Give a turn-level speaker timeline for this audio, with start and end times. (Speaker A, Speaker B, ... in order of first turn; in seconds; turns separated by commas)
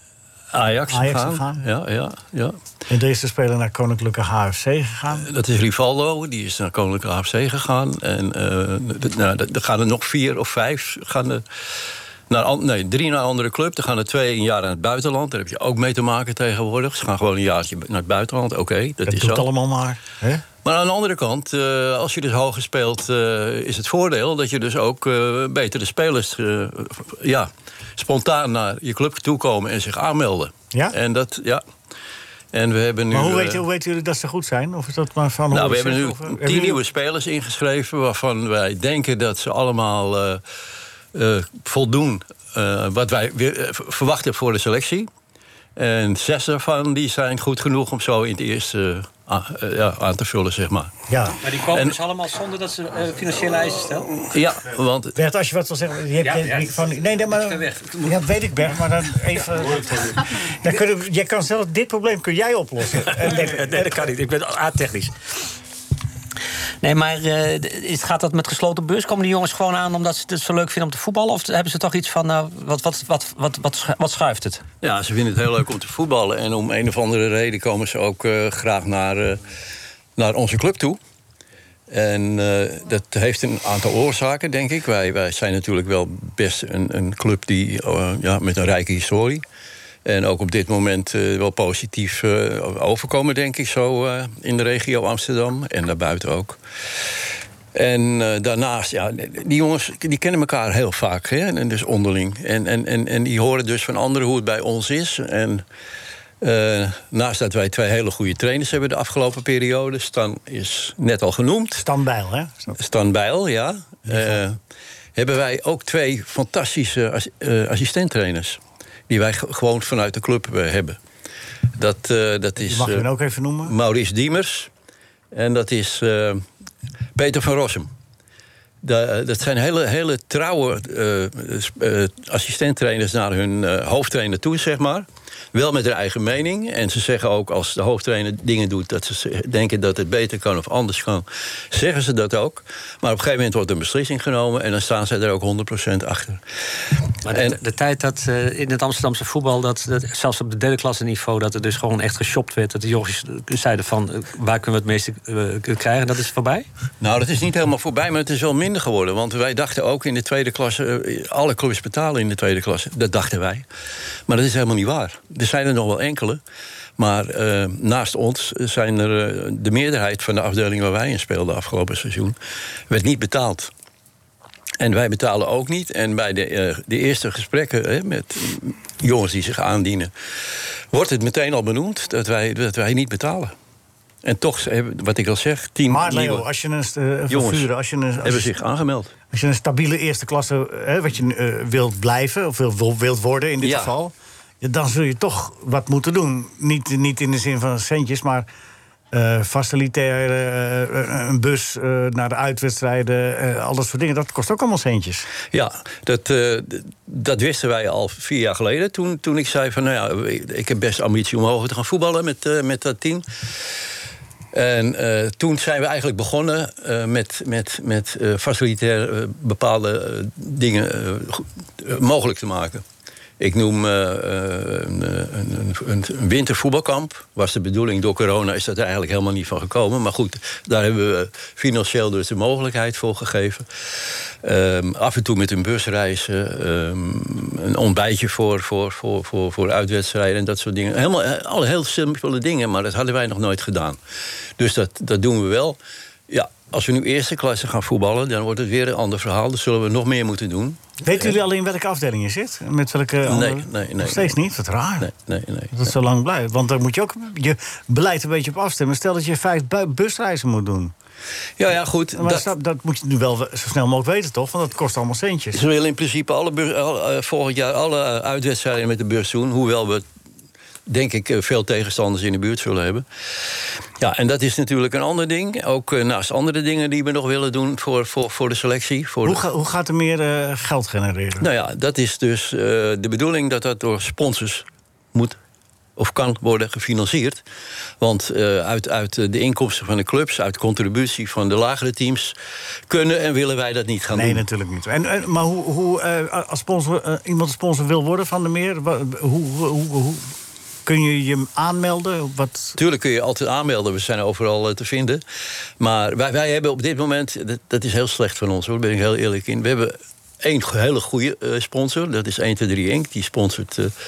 Speaker A: 0.5-2.5, Speaker B: 0.9-1.6, Speaker B: 2.9-5.3, Speaker A: 5.1-11.4, Speaker A: 12.3-19.5, Speaker B: 19.1-20.4, Speaker A: 20.6-31.6, Speaker A: 32.5-33.6, Speaker B: 33.1-36.8, Speaker A: 35.5-40.4, Speaker A: 41.1-45.1, Speaker A: 45.8-51.0, Speaker B: 51.1-51.4, Speaker C: 51.4-54.3, Speaker A: 51.6-52.0, Speaker A: 54.3-55.1, Speaker B: 55.1-63.9, Speaker C: 56.2-58.2, Speaker C: 59.7-60.2, Speaker C: 63.1-65.4, Speaker C: 66.8-74.6, Speaker A: 74.8-79.4, Speaker A: 80.2-81.0, Speaker A: 81.9-89.4, Speaker A: 90.0-96.6, Speaker A: 97.7-105.6, Speaker A: 106.4-111.8, Speaker B: 111.7-112.8, Speaker A: 112.8-114.6, Speaker B: 114.0-114.4, Speaker A: 115.1-121.0, Speaker A: 121.8-123.1, Speaker B: 122.6-123.7, Speaker A: 123.6-124.7, Speaker A: 125.3-126.4, Speaker A: 127.1-127.9, Speaker A: 128.8-146.4, Speaker C: 147.2-156.7, Speaker A: 147.3-147.6, Speaker A: 157.0-163.7, Speaker A: 164.3-166.4, Speaker A: 167.0-172.3, Speaker A: 172.9-173.7, Speaker A: 174.8-180.1, Speaker A: 180.9-183.5, Speaker A: 184.2-186.5, Speaker B: 185.9-188.5, Speaker A: 187.3-187.7, Speaker A: 188.2-189.1, Speaker B: 189.3-198.5, Speaker A: 193.6-193.9, Speaker B: 199.1-205.3, Speaker A: 205.5-213.2, Speaker A: 214.5-222.8, Speaker A: 223.4-233.7, Speaker A: 234.4-244.0, Speaker A: 244.6-245.8, Speaker A: 246.3-251.3, Speaker B: 251.0-255.1, Speaker A: 253.2-254.4, Speaker A: 255.0-255.9, Speaker B: 255.7-260.9, Speaker A: 261.6-262.5, Speaker B: 262.1-265.6, Speaker A: 265.5-270.0, Speaker A: 270.9-273.0, Speaker A: 274.0-279.4, Speaker B: 279.2-281.5, Speaker A: 281.4-285.4, Speaker A: 286.0-287.4, Speaker A: 288.0-292.3, Speaker A: 292.9-294.4, Speaker B: 294.1-300.3, Speaker B: 300.9-302.8, Speaker A: 302.8-305.2, Speaker A: 305.8-313.9